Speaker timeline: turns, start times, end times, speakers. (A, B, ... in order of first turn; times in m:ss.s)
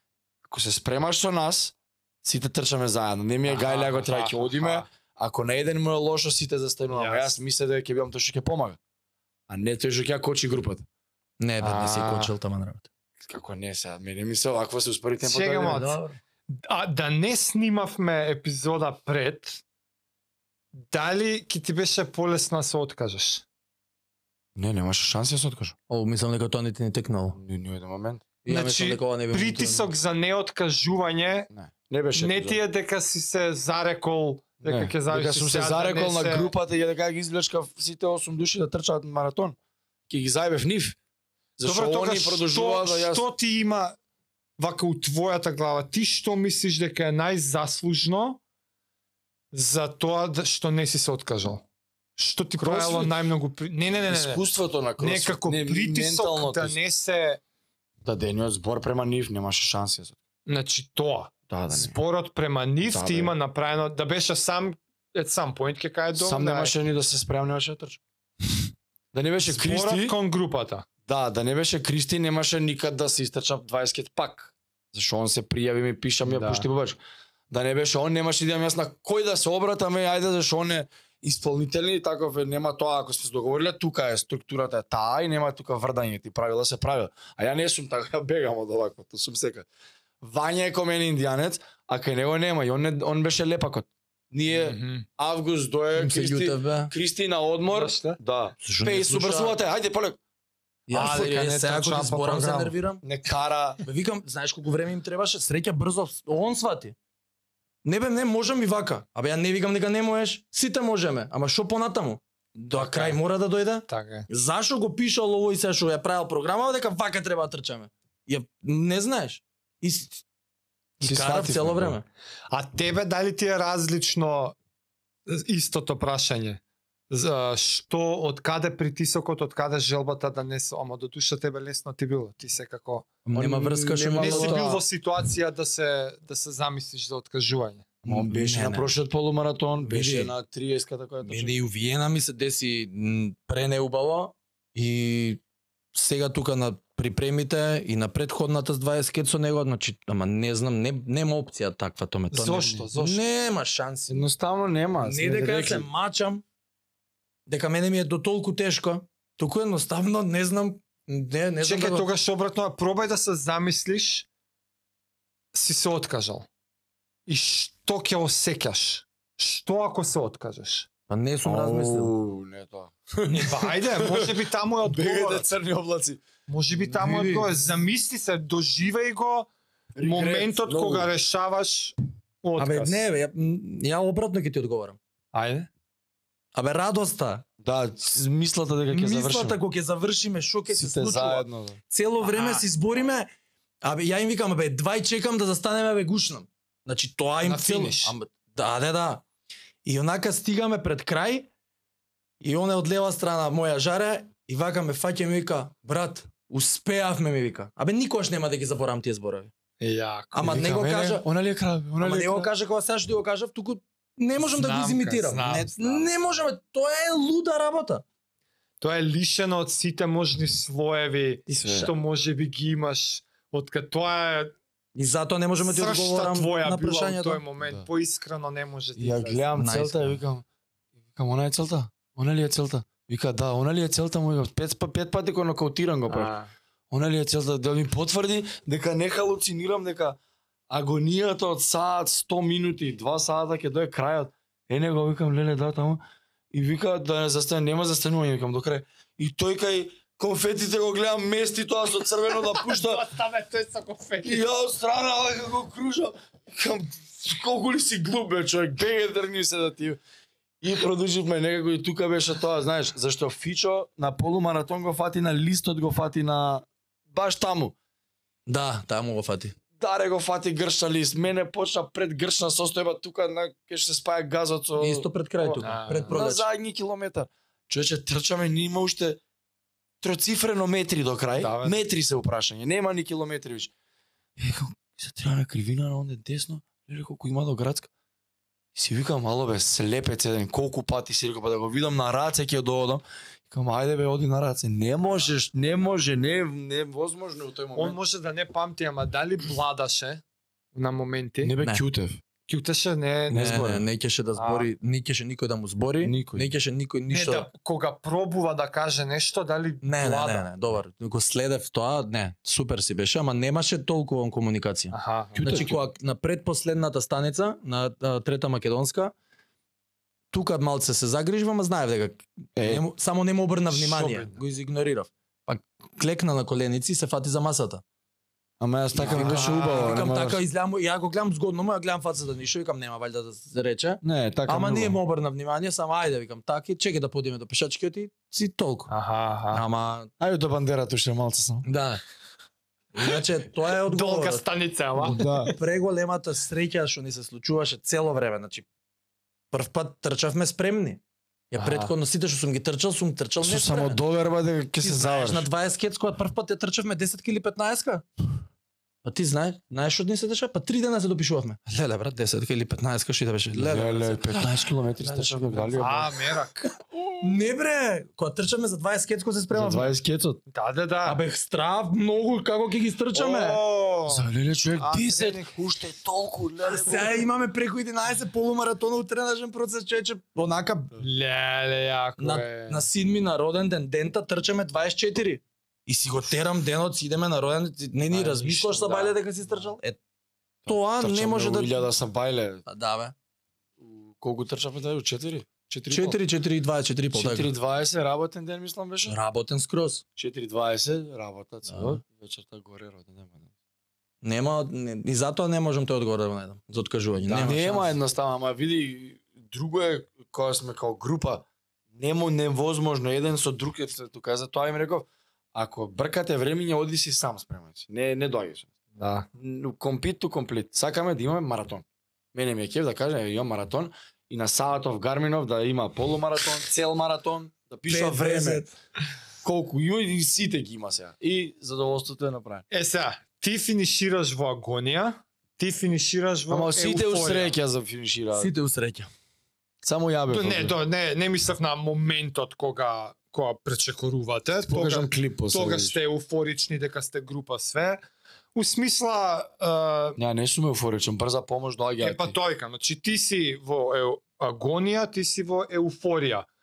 0:00.5-0:08.8 A
0:03.4-0:04.9 B
0:06.9-0:07.3 B
0:09.5-0:10.8 A
0:11.4-0:12.9 C
0:11.6-0:12.3 B
0:13.2-0:15.9 A
0:15.2-0:19.6 B
0:15.7-0:16.2 C
0:20.7-0:23.4 B
0:24.5-0:25.8 A
0:25.9-0:27.4 C
0:27.3-0:28.2 A
0:28.4-0:29.9 C
0:28.5-0:31.5 B
0:31.5-0:32.6 A
0:32.1-0:36.5 B
0:34.6-0:39.6 A
0:40.1-0:41.0 A
0:41.6-0:43.3 A
0:41.6-0:44.0 B
0:44.6-0:48.4 B
0:49.5-0:51.6 B
0:52.2-0:54.4 B
0:52.6-0:53.1 A
0:54.1-0:56.8 A
0:55.0-0:57.4 B
0:58.0-1:00.2 A
1:00.5-1:06.7 B
1:01.5-1:01.9 A
1:02.9-1:03.3 A
1:06.2-1:08.0 A
1:09.1-1:10.2 A
1:09.4-1:10.8 B
1:11.1-1:17.0 A
1:16.2-1:16.6 B
1:17.5-1:29.6 A
1:30.2-1:40.2 A
1:34.5-1:35.1 B
1:36.0-1:36.9 C
1:37.7-1:38.2 B
1:38.6-1:39.6 C
1:40.9-1:43.0 C
1:40.9-1:42.8 B
1:43.0-1:43.8 A
1:43.8-1:46.9 C
1:47.8-2:00.2 C
1:52.8-1:53.1 B
1:53.9-1:54.3 B
2:01.0-2:02.0 C
2:01.0-2:02.0 A
2:02.5-2:04.6 B
2:05.3-2:13.1 B
2:13.3-2:14.6 C
2:13.3-2:14.8 A
2:14.2-2:17.9 B
2:18.0-2:18.9 C
2:18.0-2:21.6 A
2:19.8-2:20.3 C
2:21.2-2:25.4 C
2:25.9-2:34.2 C
2:32.3-2:33.2 B
2:34.1-2:35.9 A
2:35.0-2:36.4 C
2:37.5-2:42.1 C
2:41.6-2:44.3 B
2:45.5-2:46.5 B
2:47.3-2:50.9 B
2:51.1-2:52.1 C
2:51.4-2:56.2 A
2:53.3-2:55.5 B
2:56.5-3:03.0 B
2:56.9-2:57.5 C
2:59.9-3:01.1 A
3:02.6-3:05.0 C
3:05.3-3:05.7 B
3:06.5-3:07.4 C
3:07.6-3:09.6 A
3:08.9-3:13.3 C
3:10.7-3:11.8 A
3:12.2-3:12.6 B
3:13.8-3:19.2 C
3:17.4-3:18.1 B
3:19.8-3:21.5 C
3:22.4-3:29.5 C
3:29.8-3:30.7 B
3:30.3-3:31.2 C
3:30.4-3:32.5 A
3:32.0-3:38.0 C
3:34.4-3:36.2 B
3:38.8-3:44.5 B
3:41.5-3:41.9 A
3:44.9-3:47.4 C
3:45.6-3:49.4 B
3:47.6-3:47.9 A
3:49.0-3:50.4 A
3:49.6-3:50.2 C
3:51.1-3:56.3 A
3:56.1-3:56.5 B
3:56.9-4:00.2 A
4:00.7-4:13.0 A
4:12.3-4:14.4 B
4:14.2-4:20.0 A
4:20.6-4:27.7 A
4:28.5-4:29.5 C
4:29.8-4:39.2 A
4:34.8-4:36.4 C
4:35.6-4:36.2 B
4:40.0-4:43.7 A
4:41.4-4:41.8 B
4:44.4-4:47.9 A
4:48.7-4:58.0 A
4:57.7-5:00.2 B
5:00.7-5:01.5 B
5:01.4-5:02.2 A
5:02.5-5:03.6 B
5:03.3-5:03.8 A
5:03.3-5:07.5 C
5:04.4-5:04.7 B
5:06.0-5:06.5 A
5:07.1-5:10.4 B
5:09.8-5:19.1 C
5:14.9-5:15.7 B
5:15.4-5:15.8 A
5:20.3-5:27.8 C
5:22.6-5:22.8 A
5:23.7-5:24.4 B
5:28.6-5:30.4 A
5:29.0-5:38.9 C
5:29.0-5:30.1 B
5:34.0-5:35.0 A
5:38.9-5:39.6 B
5:39.5-5:40.1 C
5:40.2-5:41.6 A
5:41.6-5:42.0 C
5:42.9-5:44.4 C
5:43.8-5:45.5 B
5:45.0-5:45.5 A
5:45.2-5:48.6 C
5:49.5-5:54.0 C
5:51.6-5:51.9 B
5:53.4-5:55.5 A
5:54.8-5:58.0 C
5:59.0-6:06.0 C
6:03.5-6:06.1 A
6:05.8-6:06.7 B
6:07.1-6:09.9 C
6:09.5-6:10.4 A
6:10.5-6:11.2 B
6:11.0-6:13.6 C
6:13.1-6:14.3 B
6:14.1-6:17.2 A
6:14.8-6:15.5 B
6:16.7-6:20.9 C
6:21.0-6:22.9 B
6:22.2-6:30.0 C
6:28.1-6:29.7 A
6:30.6-6:32.6 A
6:30.7-6:31.8 C
6:32.7-6:33.1 C
6:33.8-6:36.2 A
6:35.9-6:37.5 C
6:37.1-6:39.2 A
6:39.0-6:40.0 C
6:40.2-6:43.5 A
6:41.7-6:42.0 C
6:44.2-6:48.0 C
6:47.2-6:58.7 A
6:59.0-6:59.3 B
6:59.3-7:08.6 A
7:07.9-7:08.7 C
7:09.4-7:12.6 A
7:12.7-7:17.5 B
7:16.5-7:18.5 A
7:18.3-7:19.1 C
7:19.8-7:20.8 A
7:20.3-7:28.0 B
7:24.6-7:26.0 A
7:28.5-7:30.2 B
7:30.2-7:32.4 A
7:32.0-7:36.5 B